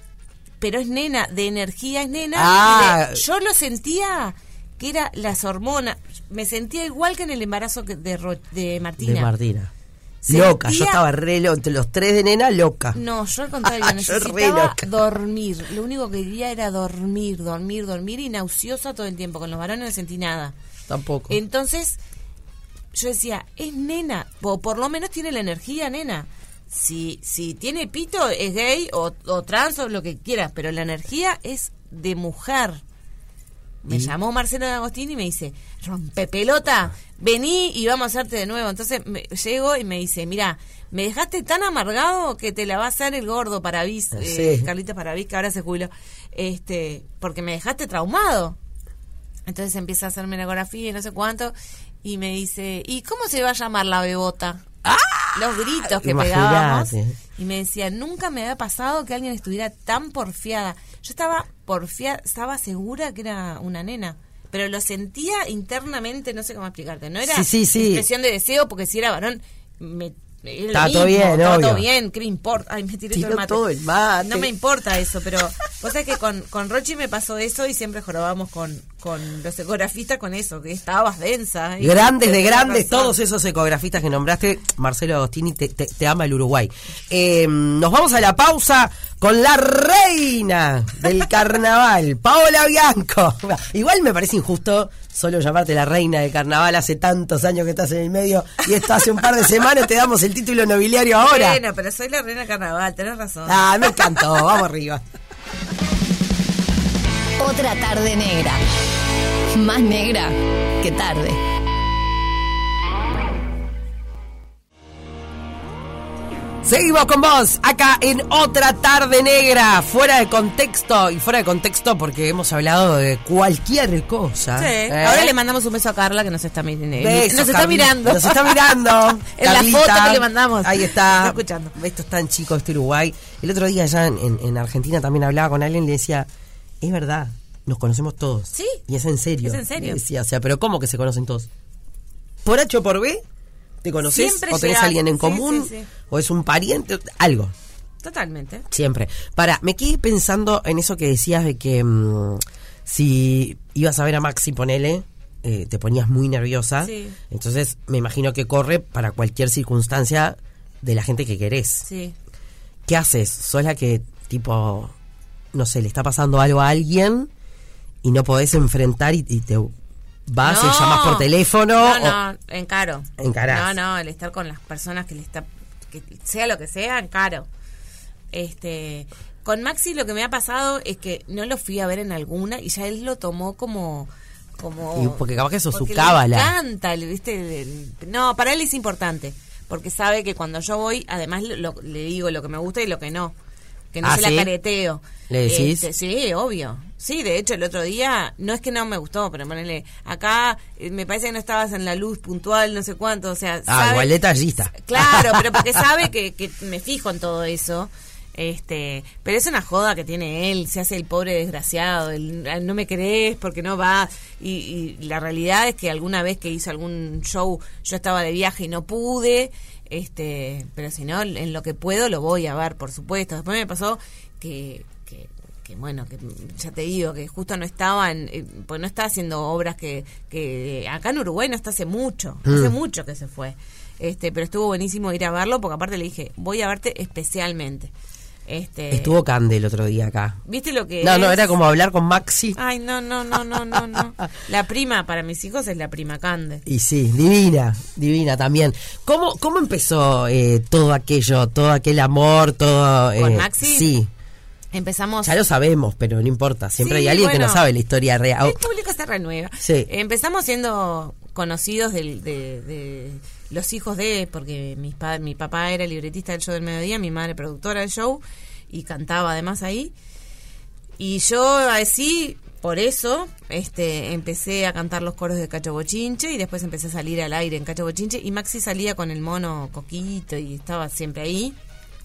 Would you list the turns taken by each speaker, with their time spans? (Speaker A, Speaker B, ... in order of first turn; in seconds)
Speaker A: 0.6-9.3, 10.2-11.0, 12.9-20.5, 21.3-22.0, 22.9-32.8, 33.8-48.6, 49.5-54.6, 55.4-73.6, 74.2-83.2, 101.2-104.4, 124.6-128.8, 129.3-131.7, 138.5-138.8, 139.4-140.0, 144.0-145.9, 148.0-148.7, 156.8-157.2, 161.8-162.2, 170.4-177.5, 178.3-193.3, 193.9-204.1, 204.7-237.9, 238.5-239.2, 240.5-241.6, 242.6-246.6, 253.2-253.9, 254.7-255.4, 256.8-257.6, 258.4-269.9, 271.0-281.6
Speaker B: 2.4-3.2, 9.0-9.7, 10.3-13.0, 13.6-14.9, 20.9-21.4, 44.1-44.7, 54.8-57.1, 67.2-68.1, 70.7-71.9, 73.1-74.5, 81.8-101.6, 103.5-105.0, 116.6-125.3, 127.0-136.3, 136.8-141.5, 142.4-143.2, 143.8-147.5, 148.7-161.9, 162.9-164.9, 165.5-167.3, 168.0-169.7, 170.3-172.2, 173.2-173.7, 184.9-186.5, 194.0-194.5, 195.3-195.9, 203.7-205.8, 232.5-232.7, 238.9-240.4, 241.0-242.6, 243.8-244.0, 246.7-254.1, 255.2-258.6, 259.6-259.9
Speaker C: 107.4-108.6, 109.6-110.3, 110.8-111.3